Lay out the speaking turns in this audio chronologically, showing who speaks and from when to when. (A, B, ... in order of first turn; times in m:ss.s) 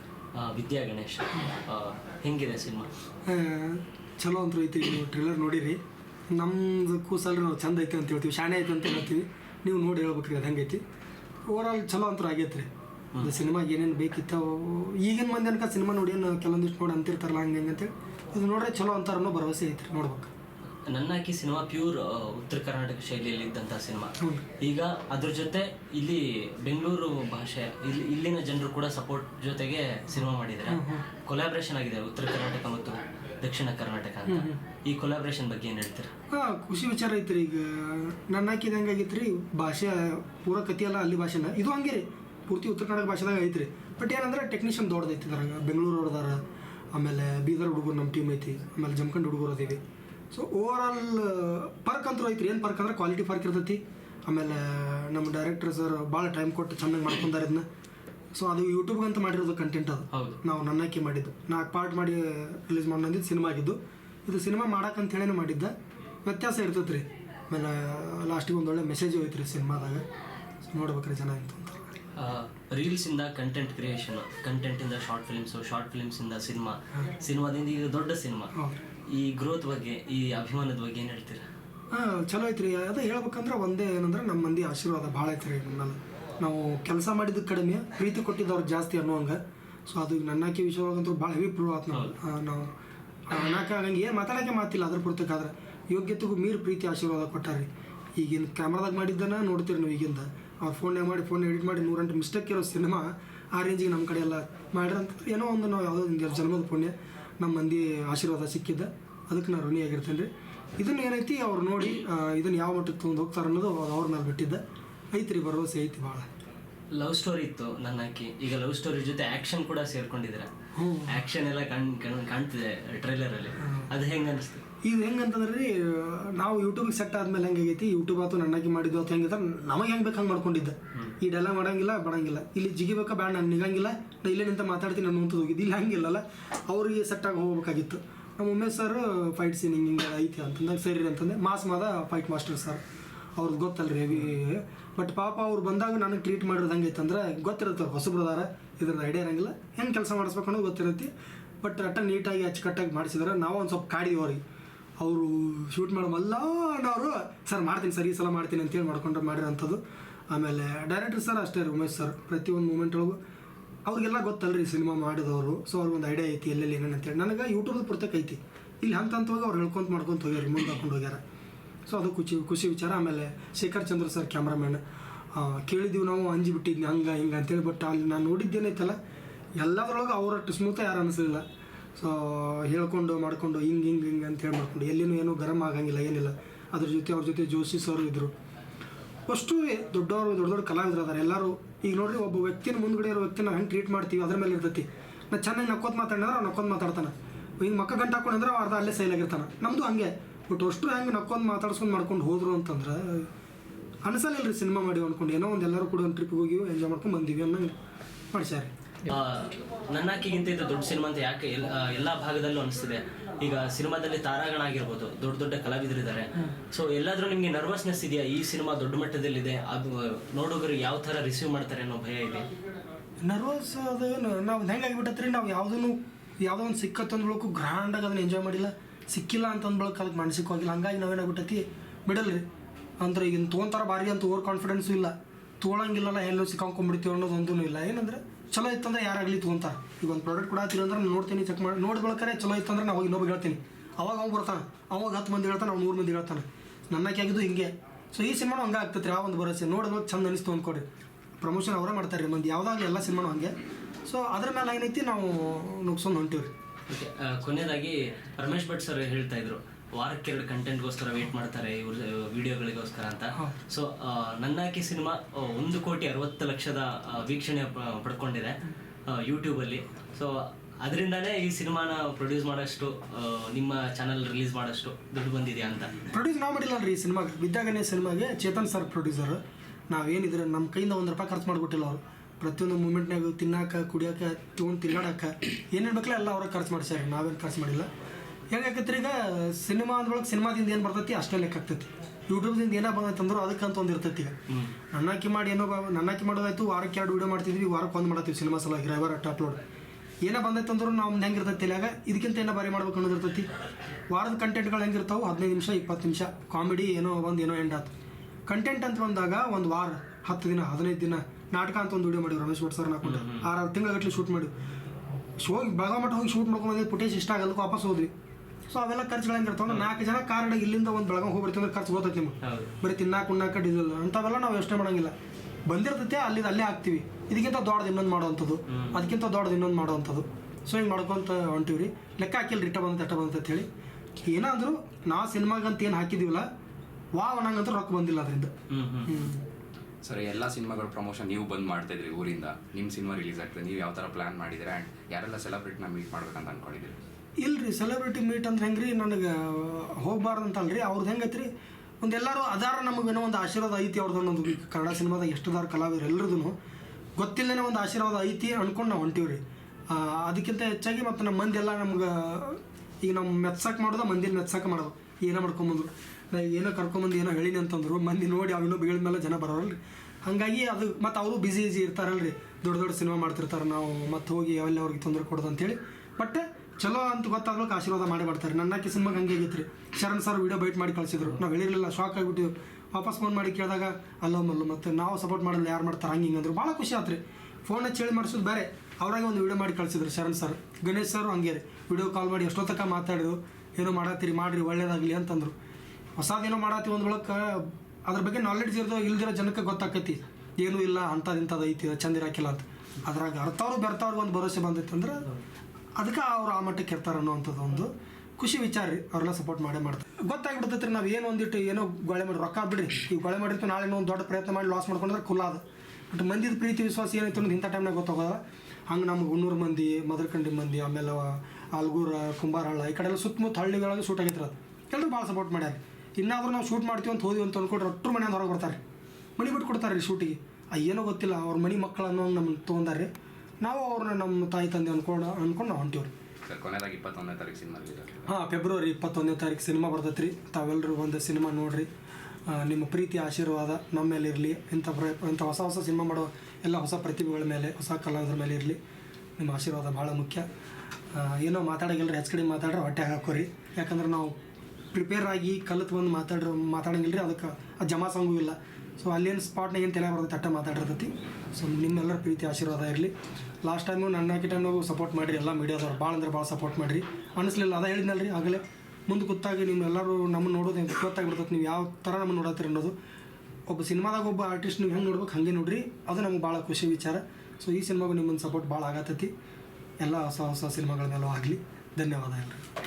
0:00.4-0:02.9 A
0:03.3-0:10.8 B
0:11.5-0:12.7 B
0:13.2-0:20.3 B
0:20.9-0:36.1 A
0:30.7-0:31.0 B
0:34.3-0:34.6 B
0:36.3-0:46.4 B
0:46.9-0:49.8 B
0:50.3-0:57.7 B
0:58.4-1:05.7 B
1:00.1-1:00.4 A
1:06.2-1:10.0 B
1:10.7-1:11.8 B
1:12.2-1:18.5 A
1:19.1-1:21.4 A
1:21.9-1:32.7 B
1:33.3-1:54.6 B
1:55.1-1:56.3 B
1:56.9-2:00.5 A
2:00.8-2:01.2 B
2:01.1-2:04.6 A
2:03.6-2:03.9 B
2:04.8-2:22.8 B
2:23.4-2:31.1 B
2:31.6-2:34.4 B
2:35.0-2:43.2 B
2:43.9-2:51.2 B
2:51.9-2:54.8 B
2:55.3-2:59.0 B
2:59.6-3:01.4 B
3:02.0-3:08.3 B
3:09.3-3:23.3 B
3:24.0-3:27.8 B
3:28.3-3:28.7 B
3:29.1-3:42.5 A
3:43.2-3:52.4 B
3:53.0-4:10.9 B
4:11.4-4:13.5 B
4:14.1-4:16.5 B
4:16.9-4:36.0 A
4:36.1-4:47.9 B
4:48.5-4:54.4 B
4:54.5-4:54.8 A
4:54.9-4:59.6 B
5:00.2-5:03.5 B
5:04.1-5:07.9 B
5:08.5-5:14.5 B
5:13.0-5:13.5 A
5:15.4-5:18.1 B
5:18.7-5:25.1 B
5:22.4-5:22.7 A
5:25.7-5:33.7 B
5:28.7-5:29.0 A
5:34.2-5:36.5 B
5:37.2-5:38.5 B
5:38.7-5:39.2 A
5:39.0-5:39.4 B
5:40.0-5:47.0 C
5:47.4-5:51.5 B
5:52.0-5:56.6 B
5:57.2-6:35.6 B
6:36.2-6:45.3 B
6:46.0-7:08.8 B
7:09.4-7:13.1 B
7:13.6-7:16.1 B
7:16.5-7:18.3 C
7:18.3-7:21.9 B
7:22.5-7:28.8 B
7:29.4-7:30.5 B
7:31.1-7:34.4 B
7:34.9-7:43.1 B
7:43.6-7:53.0 B
7:53.7-7:59.3 B
8:00.0-8:02.6 B